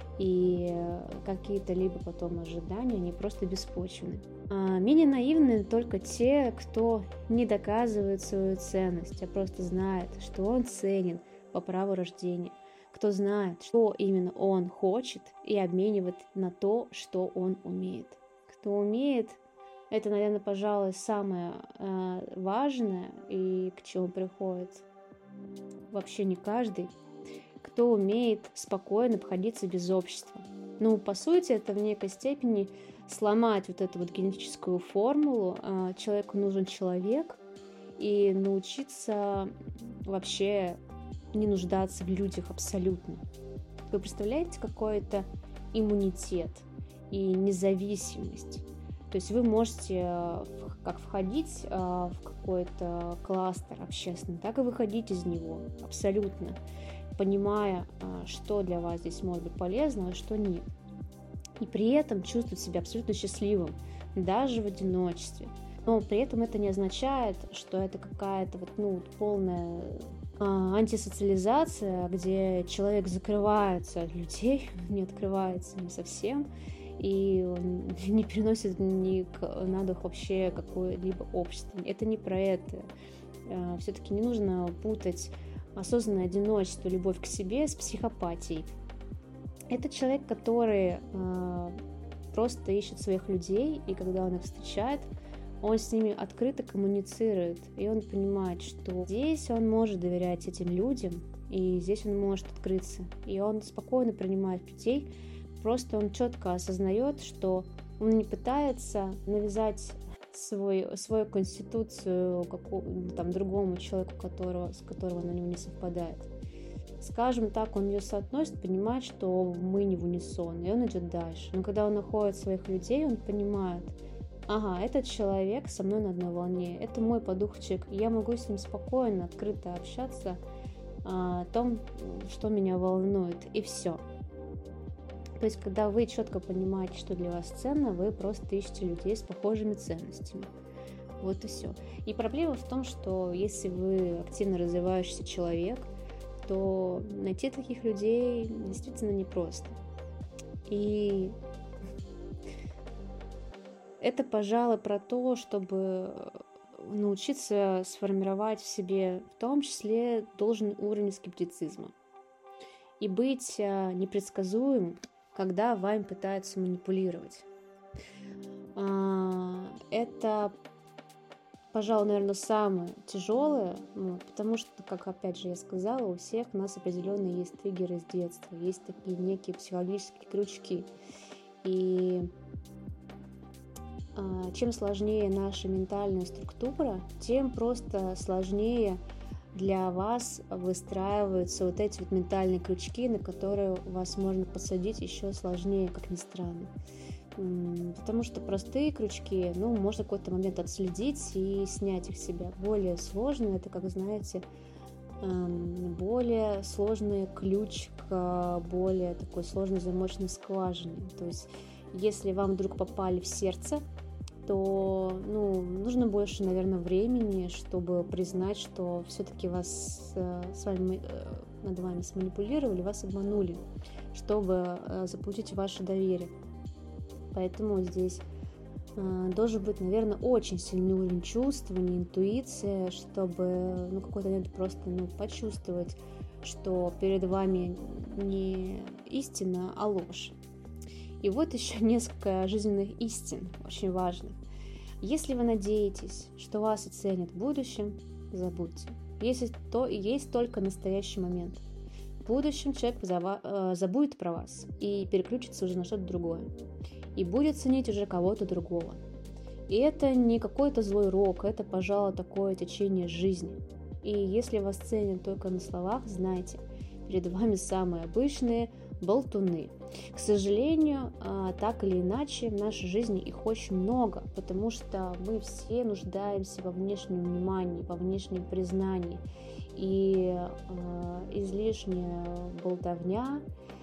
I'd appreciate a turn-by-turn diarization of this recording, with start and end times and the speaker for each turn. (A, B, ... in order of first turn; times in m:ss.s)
0:00.2-0:24.8 A
0:25.9-0:26.9 A
0:27.6-0:37.4 A
0:38.0-0:39.5 A
0:40.0-0:40.8 A
0:41.3-0:43.2 A
0:43.9-0:56.6 A
0:57.2-1:00.7 A
1:01.6-1:22.9 A
1:23.5-1:28.7 A
1:29.7-1:31.8 A
1:32.3-1:35.1 A
1:35.6-1:56.3 A
1:57.0-2:10.4 A
2:11.0-2:14.0 A
2:15.4-2:20.5 A
2:21.2-2:25.9 A
2:26.4-2:29.8 A
2:30.7-2:31.4 A
2:34.0-2:41.9 A
2:43.0-2:47.4 A
2:48.8-2:50.6 A
2:51.7-3:00.9 A
3:01.6-3:02.3 A
3:04.2-3:09.0 A
3:09.5-3:16.7 A
3:17.4-3:24.4 A
3:25.2-3:33.8 A
3:34.4-3:46.3 A
3:47.3-3:48.2 A
3:49.0-4:00.4 A
4:01.2-4:04.4 A
4:05.0-4:11.6 A
4:12.2-4:16.5 A
4:17.2-4:19.0 A
4:19.7-4:39.2 A
4:39.7-4:43.4 A